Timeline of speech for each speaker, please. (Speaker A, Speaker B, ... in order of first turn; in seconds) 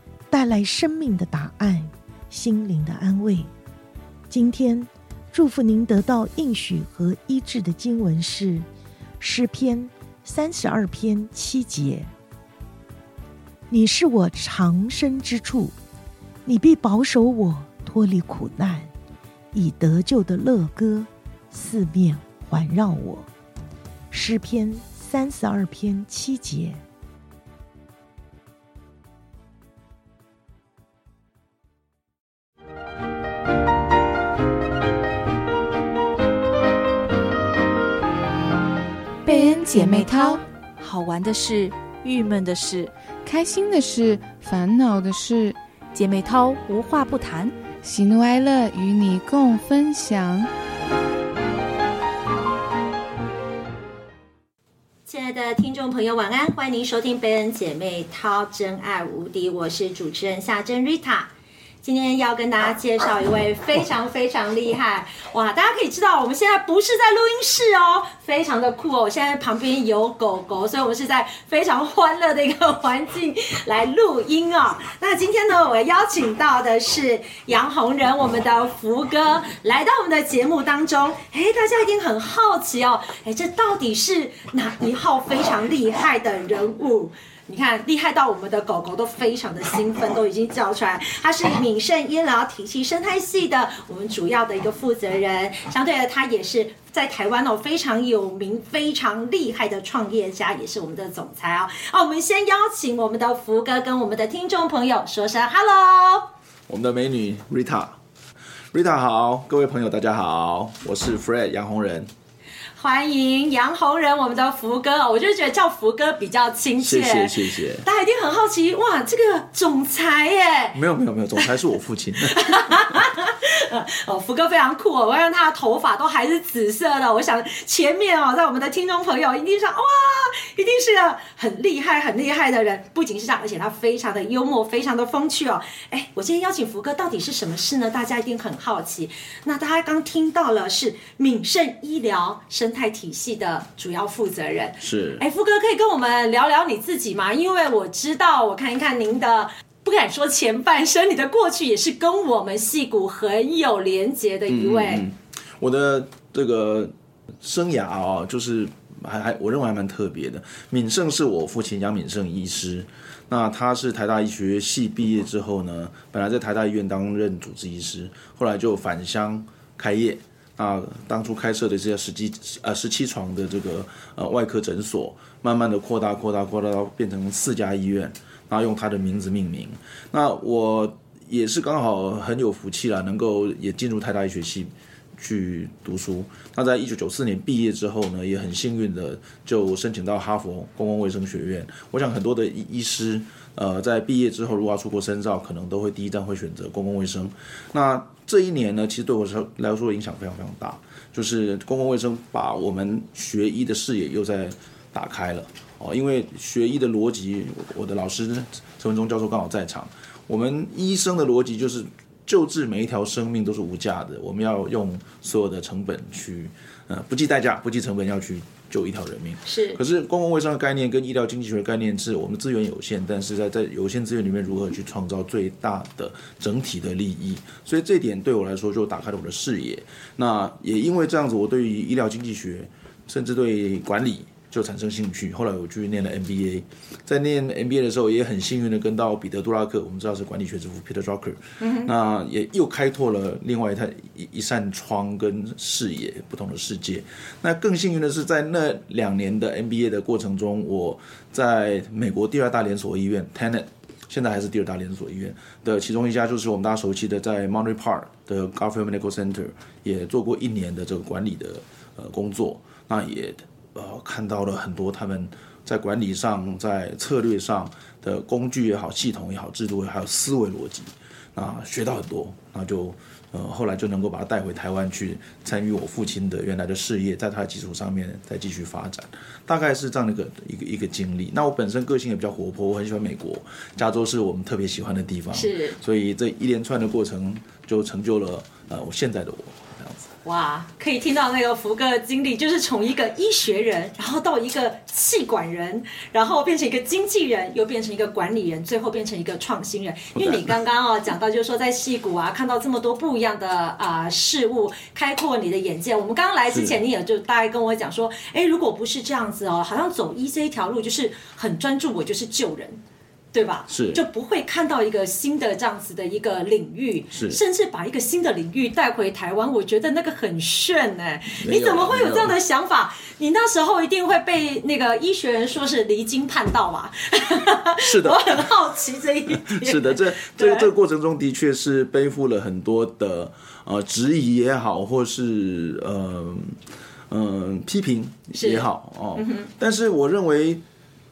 Speaker A: 0.3-3.5, 4.3-8.7, 9.2-12.1, 13.7-15.7, 16.4-18.9, 19.5-23.3, 24.1-26.8
Speaker B: 39.2-40.4, 43.2-45.6, 47.8-50.5
Speaker C: 39.2-42.9, 45.9-47.6
Speaker D: 55.1-61.3, 61.8-106.3, 112.8-120.8, 122.2-155.1, 219.4-219.8, 241.6-241.9, 285.3-285.8, 290.2-312.8, 313.3-330.7, 338.3-339.5
Speaker E: 106.7-108.0, 108.7-112.1, 116.8-117.8, 120.7-122.6, 144.8-145.2, 154.5-290.1, 300.1-300.5, 306.5-306.8, 313.7-314.0, 317.1-317.4, 321.3-322.4, 327.8-328.4, 329.3-340.6